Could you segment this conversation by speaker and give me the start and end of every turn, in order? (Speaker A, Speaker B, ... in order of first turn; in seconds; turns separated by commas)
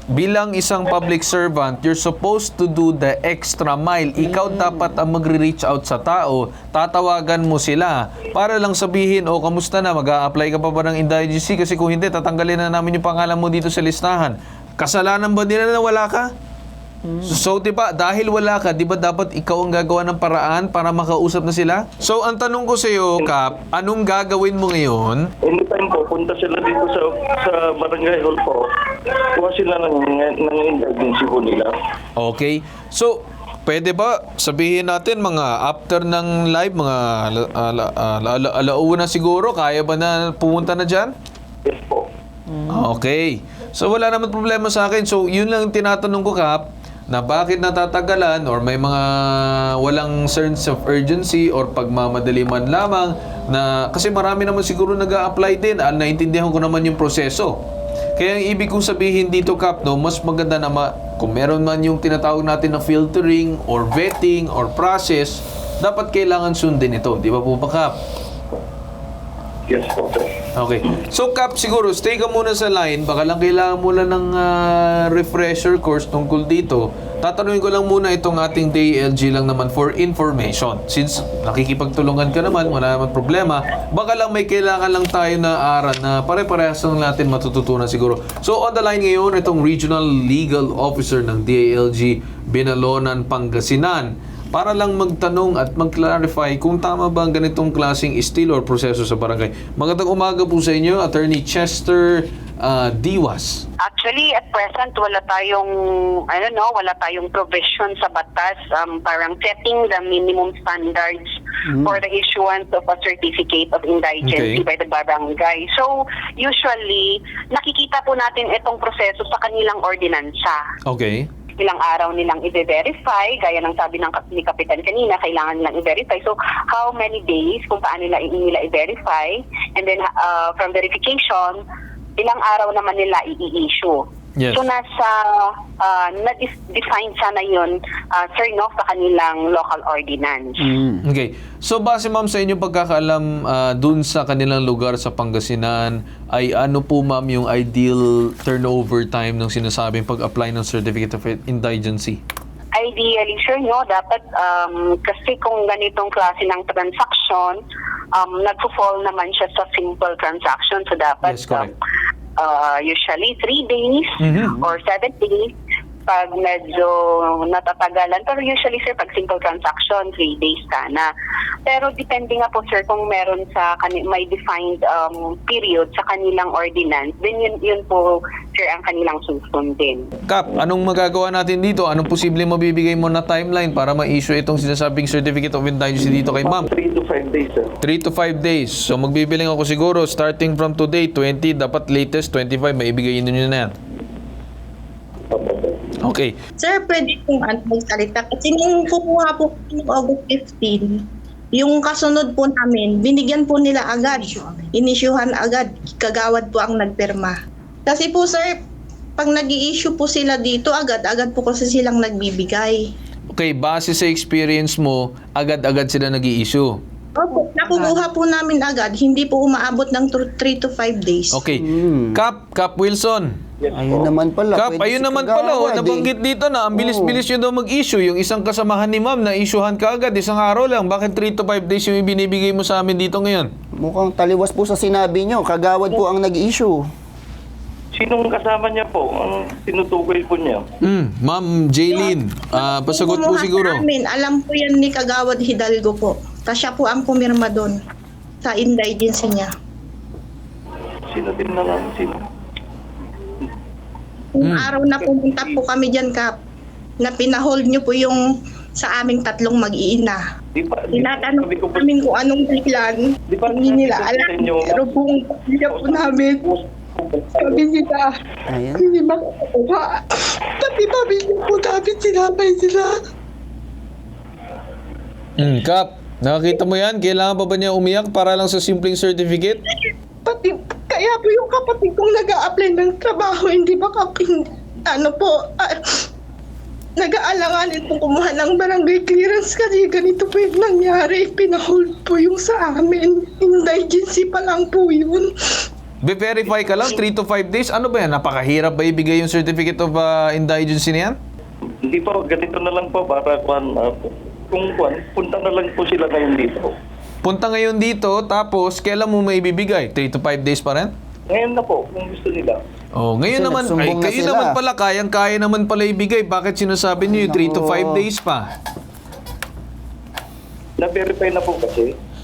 Speaker A: 0.1-16.3, Speaker B: 4.3-4.8, Speaker B: 17.1-17.3, Speaker A: 17.2-25.3, Speaker C: 25.4-31.7, Speaker A: 32.2-41.1, Speaker C: 41.6-42.1, Speaker A: 42.7-57.6, Speaker A: 58.2-68.0, Speaker C: 69.7-70.3, Speaker A: 70.5-103.7, Speaker D: 103.8-120.6, Speaker B: 111.7-112.0, Speaker A: 114.2-114.6, Speaker A: 120.9-121.3, Speaker D: 121.6-131.6, Speaker D: 132.2-140.7, Speaker B: 140.6-141.0, Speaker A: 141.0-152.2, Speaker D: 152.8-157.6, Speaker D: 158.2-161.7, Speaker A: 161.2-161.7, Speaker D: 162.4-165.5, Speaker A: 164.2-164.6, Speaker D: 166.1-171.1, Speaker D: 171.7-180.1, Speaker A: 180.3-186.7, Speaker C: 186.1-187.7, Speaker A: 187.8-193.7, Speaker C: 195.3-195.8, Speaker A: 196.0-196.3, Speaker E: 196.6-201.0, Speaker E: 201.5-207.3, Speaker E: 207.9-208.6, Speaker E: 209.2-212.8, Speaker A: 213.3-216.8, Speaker E: 217.2-221.4, Speaker A: 221.3-223.3, Speaker B: 221.6-222.2, Speaker C: 223.6-224.1, Speaker B: 223.7-226.1, Speaker A: 224.5-233.5, Speaker B: 226.7-227.2, Speaker B: 233.8-236.9, Speaker C: 237.9-240.6, Speaker A: 240.8-243.8, Speaker E: 241.9-247.8, Speaker E: 248.4-249.5, Speaker C: 251.1-252.3, Speaker E: 254.3-256.4, Speaker A: 254.4-254.7, Speaker C: 255.0-255.6, Speaker E: 257.0-258.2, Speaker E: 258.8-260.2, Speaker C: 260.6-261.9, Speaker E: 260.9-266.5, Speaker C: 263.3-265.0, Speaker C: 265.7-267.6, Speaker E: 267.4-268.1, Speaker B: 268.5-268.9, Speaker E: 268.8-273.0, Speaker A: 275.4-279.6, Speaker E: 279.9-285.8, Speaker E: 287.0-295.3, Speaker A: 296.0-301.2, Speaker C: 301.9-306.7, Speaker A: 307.2-310.9, Speaker C: 311.3-312.6, Speaker A: 312.9-318.5, Speaker B: 313.3-314.6, Speaker B: 317.1-318.1, Speaker C: 320.8-321.9